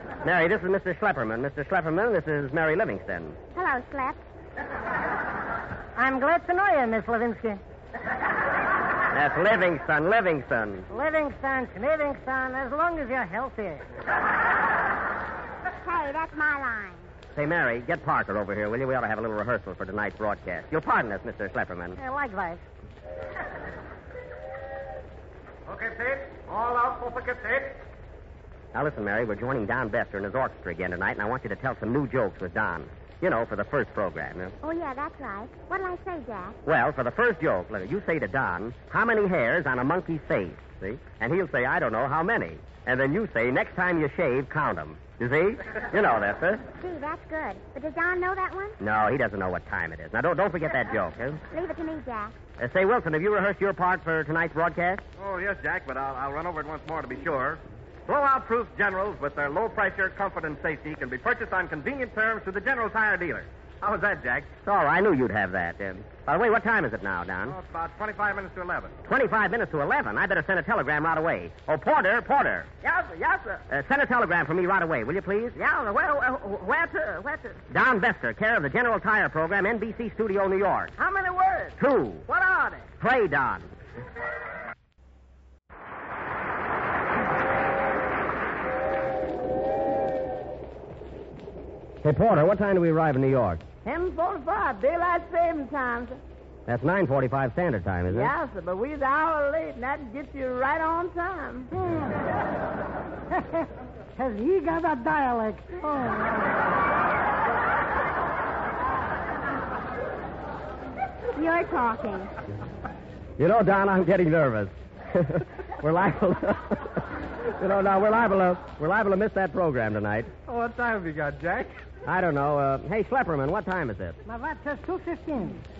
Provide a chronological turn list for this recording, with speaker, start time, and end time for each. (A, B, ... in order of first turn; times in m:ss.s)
0:00.2-0:03.4 A
0:03.5-0:04.2 B
0:06.0-0:07.6 C
0:09.1-0:10.8 A
0:10.9-0:13.8 C
0:15.8-0:17.1 B
0:17.3-0:22.0 A
0:22.0-0:22.6 C
0:25.7-0:27.7 D
0:28.7-0:34.5 A
0:34.6-0:36.6 B
0:36.6-0:46.6 A
0:46.8-0:48.8 B
0:48.8-0:51.4 A
0:51.5-0:52.4 B
0:52.6-0:55.0 A
0:55.2-1:04.5 D
1:04.6-1:07.6 A
1:07.5-1:08.9 D
1:09.0-1:12.7 A
1:12.8-1:13.6 E
1:13.7-1:15.6 A
1:15.6-1:17.6 E
1:17.7-1:20.9 A
1:21.0-1:21.8 E
1:21.8-1:22.3 A
1:22.3-1:22.8 E
1:23.0-1:23.7 A
1:32.0-1:33.6 A
1:33.8-1:36.2 E
1:36.7-1:38.3 A
1:38.1-1:41.7 E
1:43.3-1:43.6 C
1:44.2-1:46.7 C
1:51.4-1:52.3 B
1:53.4-1:57.0 A
1:57.6-2:00.3 A
2:02.0-2:04.2 A
2:04.2-2:05.6 C